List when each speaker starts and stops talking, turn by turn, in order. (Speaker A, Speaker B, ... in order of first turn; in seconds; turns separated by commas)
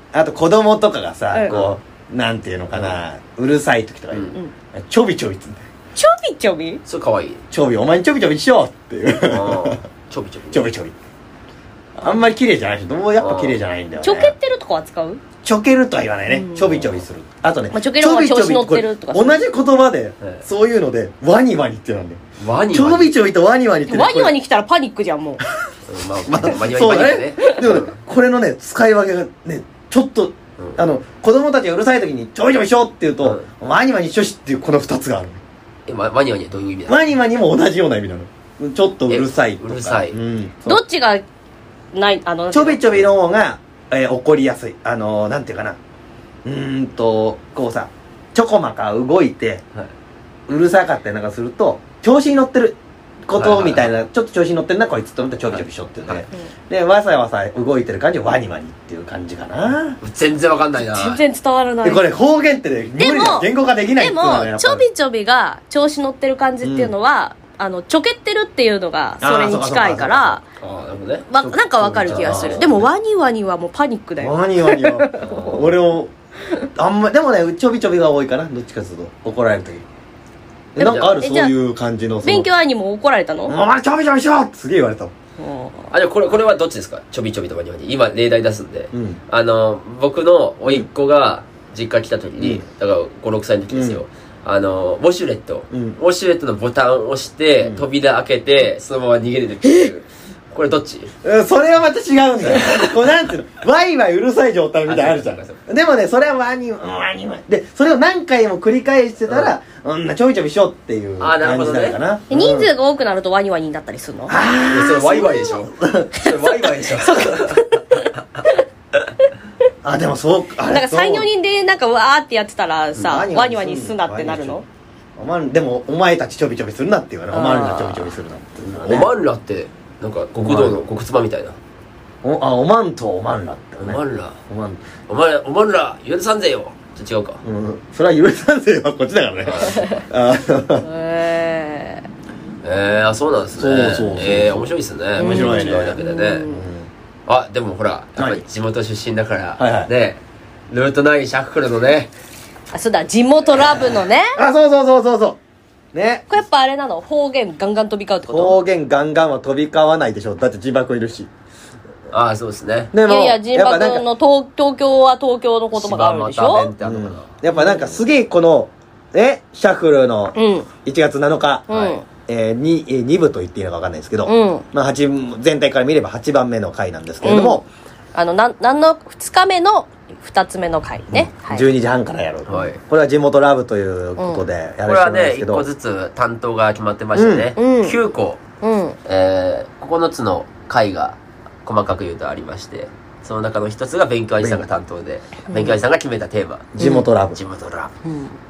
Speaker A: 0.1-5.6, Speaker B: 4.1-4.3, Speaker C: 6.0-6.8, Speaker B: 6.9-7.4, Speaker A: 7.5-9.8, Speaker B: 9.2-10.7, Speaker A: 10.5-10.9, Speaker C: 12.0-12.2, Speaker A: 12.0-14.3, Speaker B: 13.2-13.6, Speaker C: 14.0-15.2, Speaker A: 15.4-22.2, Speaker C: 16.3-16.9, Speaker C: 17.7-19.4, Speaker B: 22.4-23.1, Speaker A: 22.7-24.3, Speaker C: 23.9-25.4, Speaker B: 25.9-28.0, Speaker A: 26.2-35.4, Speaker B: 35.9-37.0, Speaker A: 36.9-40.8, Speaker B: 39.1-40.1, Speaker C: 40.6-41.2, Speaker C: 41.9-42.8, Speaker A: 42.5-45.8, Speaker A: 46.4-49.6, Speaker A: 50.5-60.0, Speaker B: 53.3-53.9, Speaker B: 55.5-56.2, Speaker B: 60.0-61.2, Speaker C: 60.8-62.0, Speaker A: 61.8-64.8, Speaker C: 63.0-70.4, Speaker A: 66.6-66.9, Speaker A: 69.2-70.4, Speaker B: 70.6-71.3, Speaker C: 71.3-75.6, Speaker A: 71.4-72.9, Speaker B: 72.0-72.7, Speaker A: 74.2-76.1, Speaker B: 75.2-75.7, Speaker A: 76.7-79.8, Speaker A: 80.7-82.5, Speaker C: 80.8-81.5, Speaker B: 80.8-81.2, Speaker C: 82.2-83.5, Speaker A: 83.5-85.1, Speaker C: 85.4-85.9, Speaker B: 85.9-101.1, Speaker A: 88.9-89.2, Speaker A: 93.7-94.0, Speaker A: 95.7-96.0, Speaker A: 101.2-112.7, Speaker B: 102.5-102.8, Speaker B: 104.9-105.6, Speaker B: 109.3-109.5, Speaker B: 111.2-112.0, Speaker C: 112.3-114.4, Speaker A: 114.3-116.1, Speaker B: 114.7-118.4, Speaker C: 116.2-118.6, Speaker A: 119.8-121.3, Speaker C: 120.7-124.6, Speaker A: 123.0-124.6, Speaker A: 125.2-129.1, Speaker C: 127.3-128.1, Speaker B: 128.7-131.6, Speaker A: 130.4-130.8, Speaker A: 132.2-134.8, Speaker B: 133.8-134.4, Speaker B: 135.1-137.4, Speaker A: 137.4-140.8, Speaker B: 139.4-139.8, Speaker C: 139.6-140.0, Speaker C: 140.8-142.1, Speaker B: 142.6-146.5, Speaker A: 143.6-146.9, Speaker C: 145.2-146.6, Speaker B: 147.3-152.1, Speaker A: 148.2-148.4, Speaker A: 149.6-149.9, Speaker C: 152.7-154.4, Speaker A: 154.3-155.4, Speaker A: 155.9-156.2, Speaker C: 156.3-158.6, Speaker A: 158.3-161.3, Speaker B: 162.1-162.9, Speaker A: 162.9-164.0, Speaker C: 163.0-166.7, Speaker B: 165.7-167.8, Speaker A: 166.8-177.7, Speaker C: 170.3-170.7, Speaker C: 171.7-172.0, Speaker B: 171.7-171.9, Speaker C: 174.2-174.6, Speaker C: 177.2-177.6, Speaker C: 178.1-181.7, Speaker A: 181.1-185.7, Speaker B: 182.5-182.8, Speaker C: 184.2-184.4, Speaker B: 184.8-188.4, Speaker A: 187.1-187.5, Speaker C: 187.6-188.0, Speaker C: 188.6-189.0, Speaker B: 189.1-196.7, Speaker A: 194.4-194.6, Speaker C: 195.5-195.8, Speaker A: 196.7-197.4, Speaker C: 196.8-197.1, Speaker B: 197.3-197.9, Speaker C: 198.0-198.3